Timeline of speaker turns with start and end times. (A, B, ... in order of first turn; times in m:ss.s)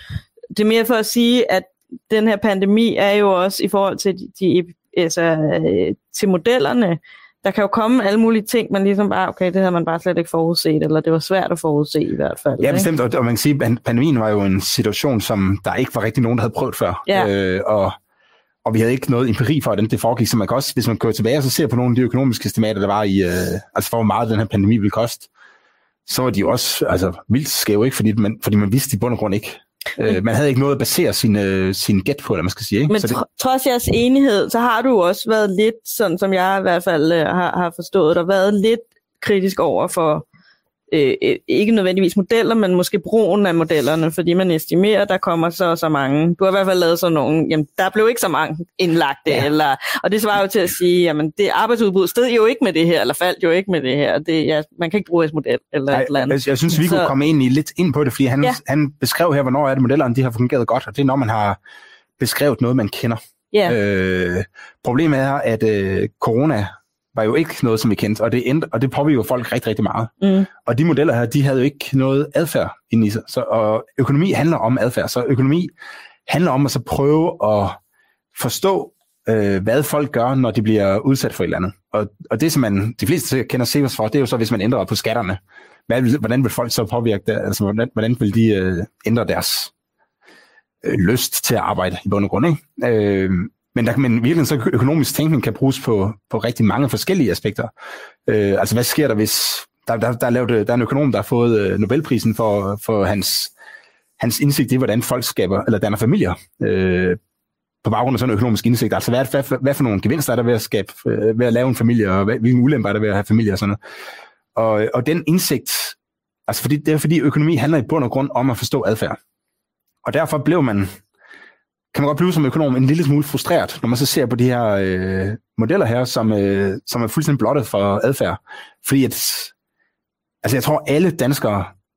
0:00.5-0:12.9 A
0:12.6-0:17.9 B
0:18.6-0:25.3 B
0:26.0-0:33.2 B
0:32.9-0:40.2 A
0:40.9-0:57.1 A
0:55.9-1:01.6 B
1:02.2-1:15.7 B
1:10.2-1:10.5 A
1:16.3-1:17.8 B
1:18.3-1:29.7 B
1:30.8-1:37.7 B
1:38.2-1:43.5 B
1:44.2-1:47.2 B
1:47.8-1:53.8 B
1:54.5-1:56.0 B
1:56.5-1:59.2 B
2:00.0-2:00.9 B
2:01.9-2:09.5 B
2:10.4-2:11.7 B